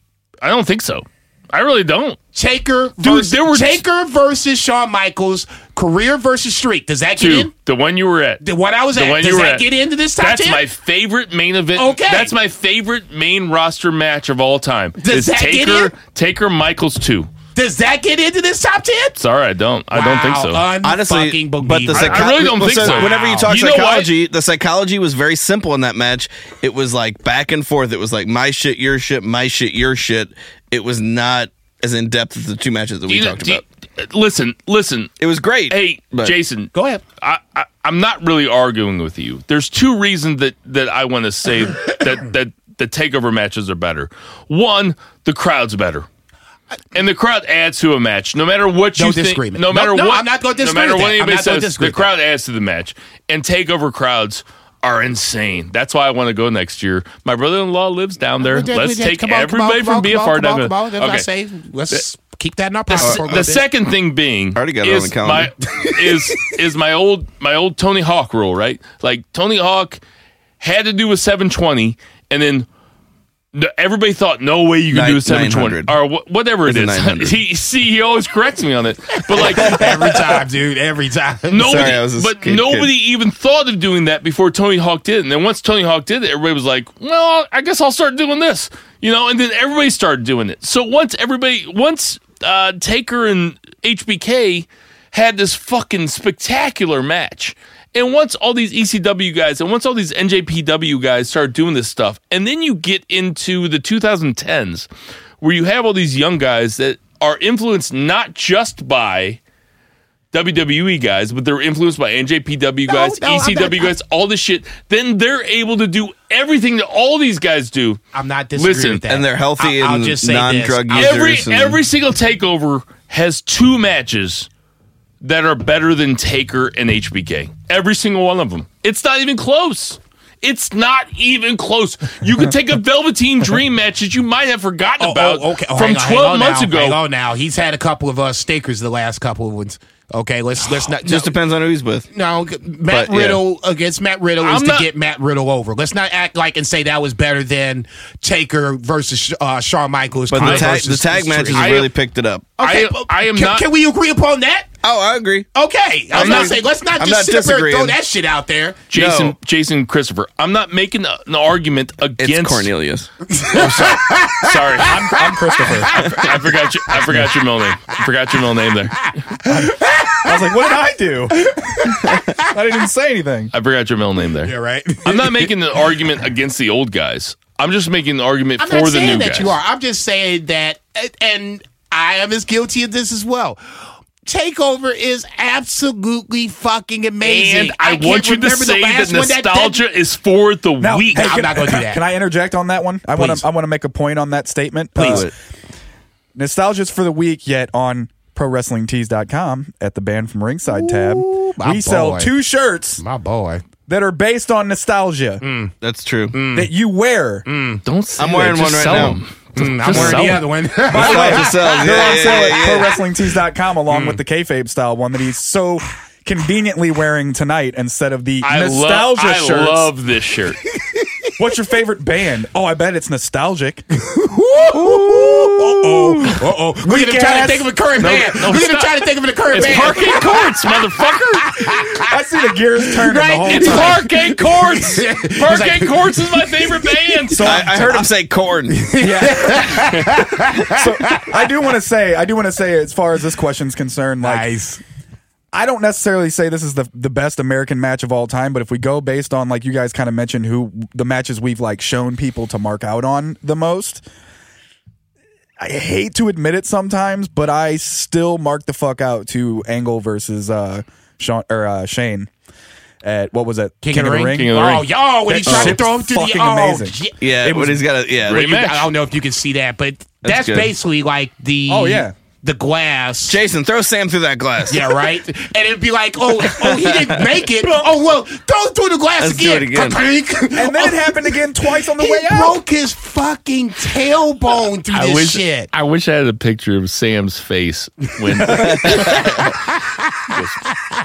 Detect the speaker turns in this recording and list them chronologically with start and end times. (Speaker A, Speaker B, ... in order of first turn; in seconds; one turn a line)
Speaker A: 0.4-2.2
Speaker B: 2.3-7.5
Speaker A: 3.0-3.8
Speaker A: 7.2-17.3
Speaker B: 8.4-10.6
Speaker B: 11.7-12.3
Speaker B: 15.0-15.9
Speaker B: 17.5-19.2
Speaker A: 19.2-20.6
Speaker B: 19.9-23.5
Speaker C: 20.8-33.6
Speaker A: 21.9-24.1
Speaker A: 33.1-35.1
Speaker C: 35.2-36.3
Speaker A: 35.7-46.1
Speaker B: 36.7-37.0
Speaker A: 46.9-61.2
Speaker B: 49.0-52.1
Speaker B: 58.4-63.6
Speaker A: 62.9-70.0
Speaker C: 63.0-63.4
Speaker C: 64.5-65.5
Speaker B: 65.7-66.5
Speaker A: 70.6-72.7
Speaker A: 73.5-79.8
Speaker C: 74.9-75.9
Speaker C: 76.7-77.4
Speaker B: 79.3-82.0
Speaker C: 79.4-80.4
Speaker A: 81.5-104.9
Speaker C: 81.6-82.9
Speaker A: 105.4-109.4
Speaker A: 110.3-118.0
Speaker B: 112.9-113.9
Speaker B: 118.1-121.4
Speaker A: 118.5-119.0
Speaker C: 119.1-121.8
Speaker A: 120.9-124.5
Speaker A: 125.2-137.0
Speaker B: 135.0-141.3
Speaker C: 141.0-142.1
Speaker B: 142.1-151.9
Speaker C: 142.9-143.4
Speaker A: 144.4-144.9
Speaker C: 150.3-152.5
Speaker A: 150.4-150.9
Speaker A: 151.5-151.9
Speaker B: 152.6-154.7
Speaker A: 152.6-153.7
Speaker C: 154.8-155.5
Speaker B: 155.5-158.8
Speaker C: 156.1-158.0
Speaker A: 156.1-156.6
Speaker A: 158.9-162.7
Speaker C: 158.9-159.3
Speaker C: 162.2-163.1
Speaker B: 163.3-164.8
Speaker A: 163.4-165.1
Speaker D: 164.8-166.2
Speaker B: 165.6-166.3
Speaker A: 165.9-169.2
Speaker B: 169.3-170.3
Speaker D: 169.4-173.5
Speaker B: 171.4-172.3
Speaker A: 173.5-174.5
Speaker B: 174.4-175.5
Speaker A: 175.0-179.6
Speaker B: 178.6-183.6
Speaker B: 184.2-189.8
Speaker A: 187.2-191.5
Speaker D: 190.8-195.3
Speaker B: 191.1-192.0
Speaker B: 193.2-193.4
Speaker B: 194.9-195.3
Speaker C: 195.0-195.3
Speaker D: 196.3-203.0
Speaker B: 200.7-202.3
Speaker B: 203.0-203.6
Speaker D: 203.9-205.4
Speaker B: 205.4-205.7
Speaker C: 205.8-206.4
Speaker B: 206.3-206.7
Speaker D: 206.5-207.4
Speaker B: 207.4-207.8
Speaker A: 207.8-210.5
Speaker C: 208.2-209.2
Speaker B: 209.5-212.7
Speaker D: 210.9-219.9
Speaker C: 210.9-213.0
Speaker B: 213.9-214.2
Speaker A: 218.4-220.6
Speaker B: 220.7-221.3
Speaker D: 221.4-223.8
Speaker B: 223.9-230.7
Speaker D: 224.7-227.7
Speaker A: 228.0-231.8
Speaker B: 231.4-232.2
Speaker D: 232.0-234.0
Speaker B: 232.8-237.3
Speaker A: 233.5-237.5
Speaker D: 237.3-238.1
Speaker C: 237.4-238.9
Speaker B: 238.7-241.4
Speaker D: 239.0-240.0
Speaker D: 240.7-244.5
Speaker B: 244.2-244.8
Speaker D: 245.5-254.0
Speaker D: 255.6-262.3
Speaker D: 263.0-264.6
Speaker B: 263.8-267.2
Speaker A: 264.3-264.9
Speaker D: 265.3-267.8
Speaker C: 265.5-265.8
Speaker C: 267.2-268.5
Speaker A: 268.3-268.9
Speaker B: 268.3-273.4
Speaker C: 270.2-270.7
Speaker D: 271.7-272.1
Speaker C: 273.3-275.1
Speaker B: 274.7-285.7
Speaker C: 276.5-277.1
Speaker D: 277.6-277.9
Speaker C: 279.2-280.0
Speaker D: 280.5-282.6
Speaker A: 284.9-289.5
Speaker D: 288.4-289.1
Speaker C: 288.5-289.4
Speaker B: 289.0-290.4
Speaker A: 290.3-290.6